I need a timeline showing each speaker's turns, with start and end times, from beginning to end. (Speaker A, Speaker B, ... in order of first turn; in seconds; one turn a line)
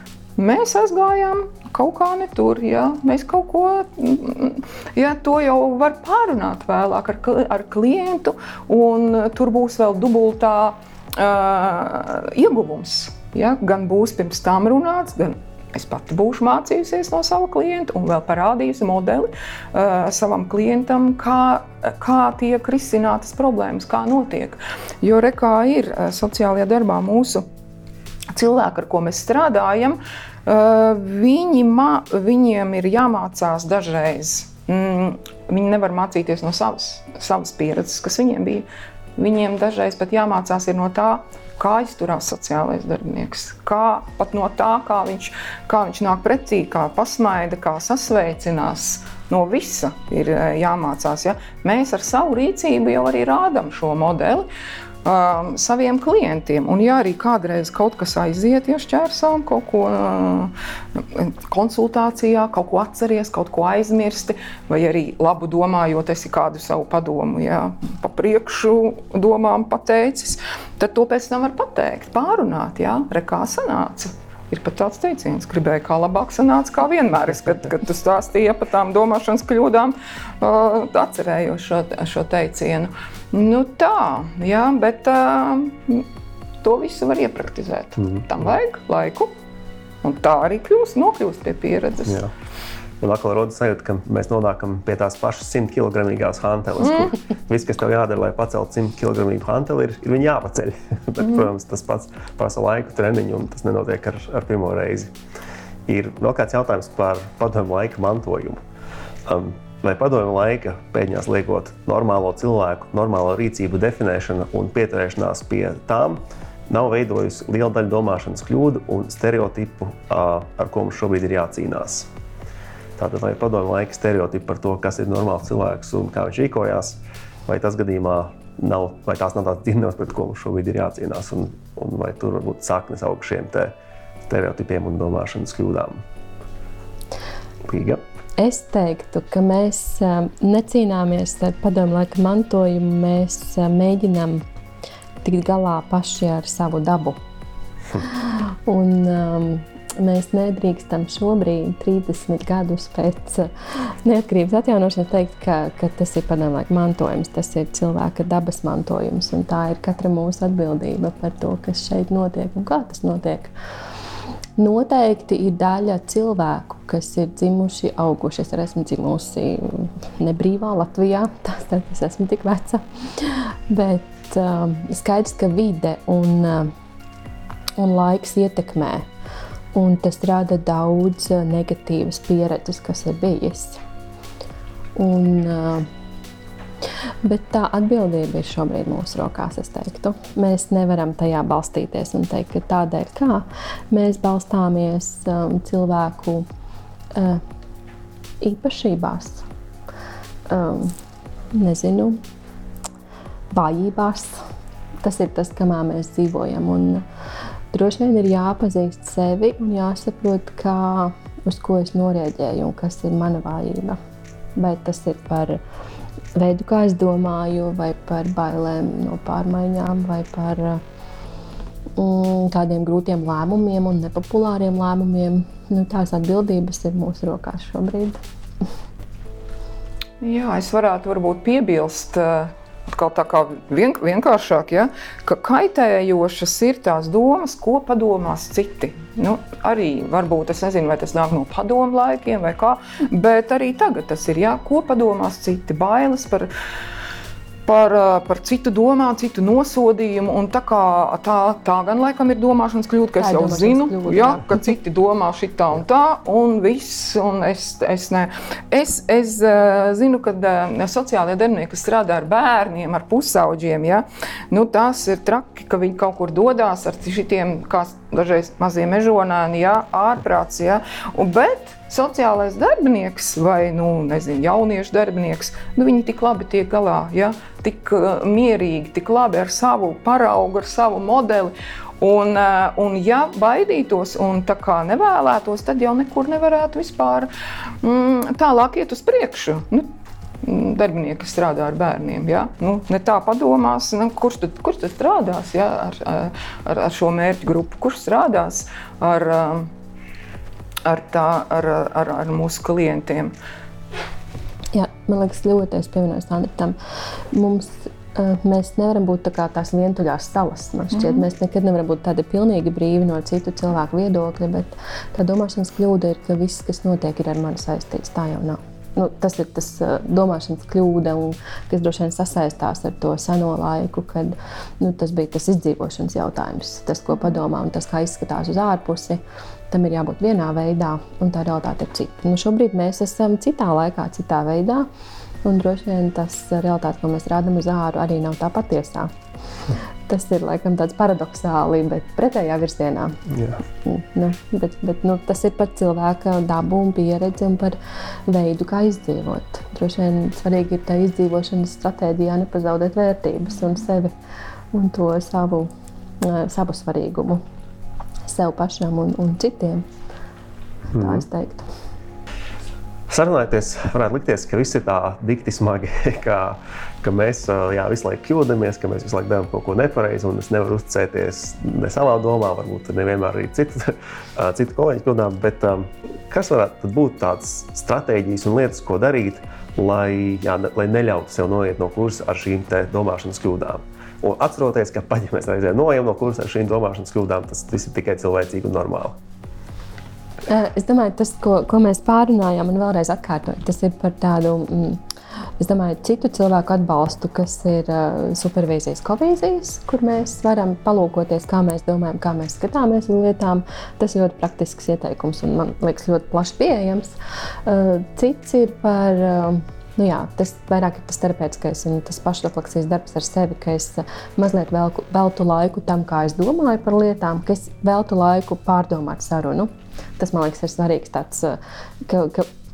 Speaker A: 0.4-27.4
Speaker A: 28.3-54.5
Speaker A: 55.0-86.1
Speaker A: 86.6-89.3
Speaker A: 90.0-92.2
Speaker B: 93.0-105.1
Speaker A: 101.2-101.5
Speaker B: 105.9-108.6
Speaker B: 109.3-122.1
Speaker B: 123.0-133.7
Speaker B: 134.3-136.0
Speaker B: 137.7-138.0
Speaker C: 138.4-144.4
Speaker C: 145.2-147.2
Speaker C: 148.1-163.5
Speaker C: 164.6-176.7
Speaker C: 177.8-179.1
Speaker C: 179.7-183.8
Speaker C: 185.0-185.9
Speaker C: 187.2-196.5
Speaker C: 197.2-197.4
Speaker C: 198.4-199.4
Speaker C: 200.5-201.0
Speaker C: 201.5-202.2
Speaker C: 203.5-204.4
Speaker C: 205.0-207.0
Speaker C: 207.7-214.0
Speaker C: 214.6-215.6
Speaker C: 216.4-220.8
Speaker C: 222.0-228.2
Speaker A: 230.2-246.5
Speaker A: 247.7-287.3
Speaker C: 253.2-254.6
Speaker A: 287.8-289.9
Speaker A: 290.4-299.7
Speaker A: 300.9-303.3
Speaker C: 304.7-306.8
Speaker C: 307.3-334.9
Speaker A: 310.9-311.2
Speaker C: 335.4-339.1
Speaker C: 340.1-343.2
Speaker B: 343.3-343.6
Speaker C: 343.8-347.8
Speaker C: 348.3-354.1
Speaker C: 354.7-357.4
Speaker C: 358.3-359.9
Speaker B: 360.9-361.2
Speaker C: 360.9-361.7
Speaker B: 363.1-389.2
Speaker C: 390.5-395.0
Speaker C: 395.6-407.1
Speaker C: 407.7-422.5